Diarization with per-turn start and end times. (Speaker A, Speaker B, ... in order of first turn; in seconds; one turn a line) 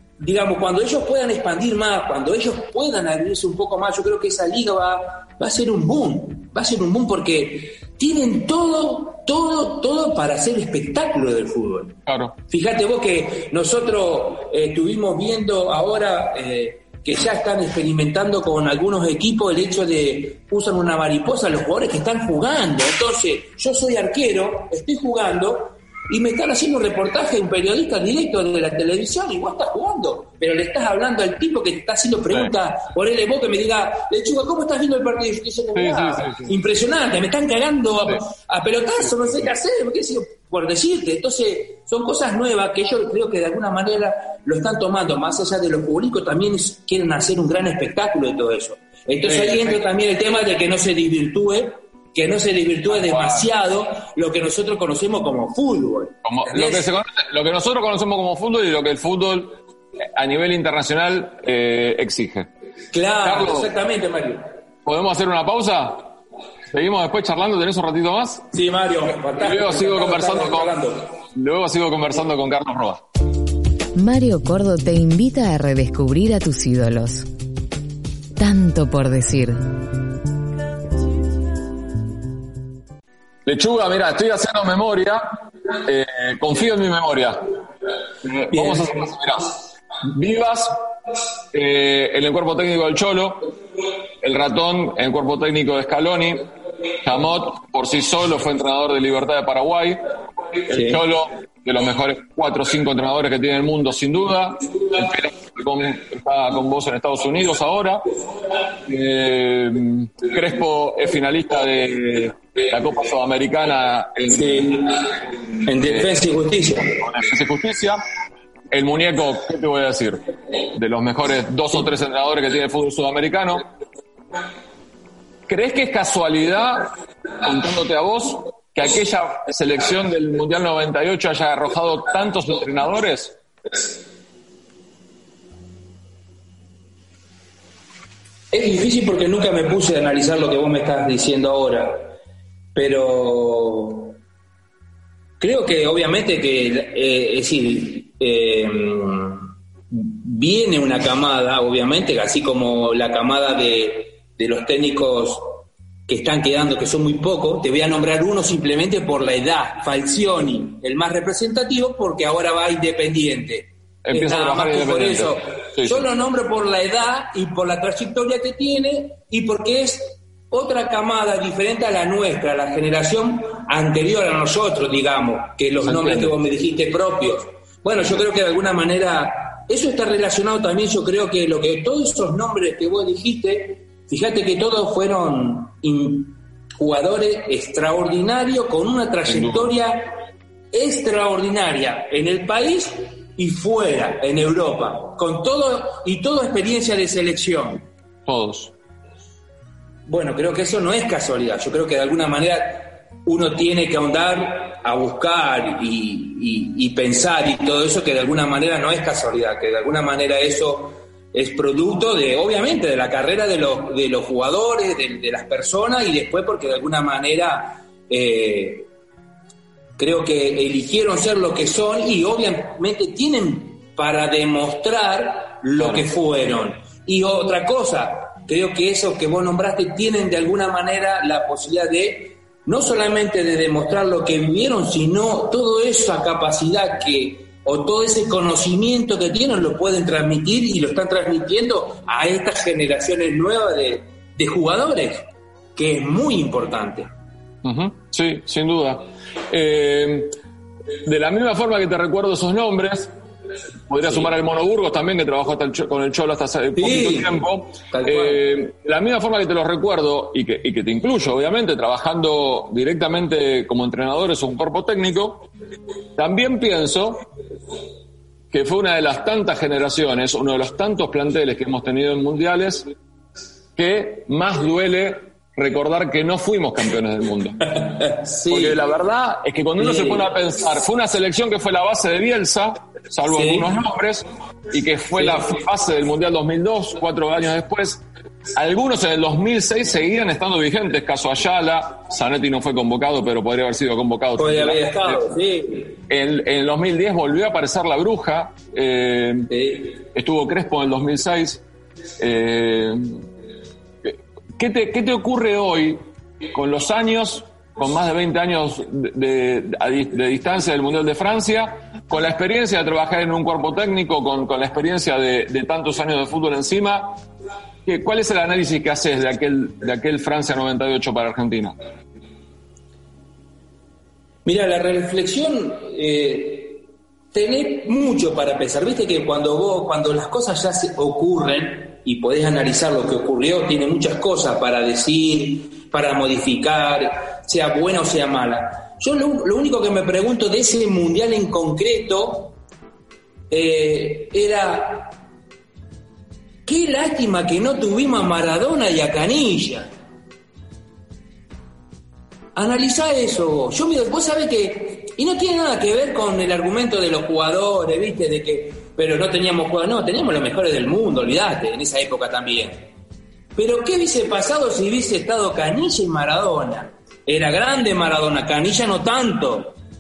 Speaker A: 0.2-12.0
Speaker B: 12.1-12.3
Speaker A: 12.5-56.9
Speaker B: 35.8-36.5
Speaker B: 49.2-49.8
Speaker B: 53.0-53.4
Speaker B: 56.2-62.5
Speaker A: 62.9-64.5
Speaker B: 63.2-63.7
Speaker B: 64.8-66.1
Speaker B: 66.7-68.5
Speaker A: 68.5-71.0
Speaker B: 69.4-70.7
Speaker B: 71.3-73.0
Speaker C: 73.9-77.2
Speaker C: 78.4-79.6
Speaker B: 83.5-87.4
Speaker B: 88.2-90.8
Speaker A: 88.5-89.0
Speaker B: 91.5-93.5
Speaker B: 94.2-96.5
Speaker B: 97.0-100.0
Speaker B: 100.7-108.0
Speaker A: 100.7-101.0
Speaker B: 108.8-114.7
Speaker A: 114.3-114.9
Speaker A: 115.6-117.0
Speaker B: 116.9-118.0
Speaker B: 118.7-123.7
Speaker B: 125.5-126.9
Speaker B: 127.4-133.4
Speaker A: 138.5-142.1
Speaker A: 142.7-144.2
Speaker A: 145.4-190.2
Speaker B: 164.1-166.0
Speaker B: 175.9-176.3
Speaker B: 189.3-189.7
Speaker A: 190.7-197.8
Speaker B: 198.2-198.7
Speaker A: 200.1-218.9
Speaker A: 220.0-245.2
Speaker B: 225.8-226.0
Speaker A: 245.8-247.1
Speaker B: 247.6-250.3
Speaker B: 251.0-253.1
Speaker B: 253.9-265.5
Speaker A: 256.8-257.4
Speaker A: 257.9-258.4
Speaker B: 266.1-267.3
Speaker B: 268.5-272.9
Speaker B: 273.8-277.9
Speaker A: 278.0-278.8
Speaker B: 278.5-288.0
Speaker A: 279.8-280.3
Speaker A: 283.3-283.7
Speaker A: 285.1-285.4
Speaker B: 288.5-295.2
Speaker A: 294.4-296.0
Speaker B: 296.1-301.6
Speaker A: 299.5-299.9
Speaker B: 302.2-303.2
Speaker B: 304.0-306.0
Speaker B: 306.5-317.2
Speaker B: 317.8-321.8
Speaker A: 324.4-342.5
Speaker A: 343.5-345.1
Speaker A: 346.6-349.9
Speaker A: 352.5-362.8
Speaker A: 363.6-369.7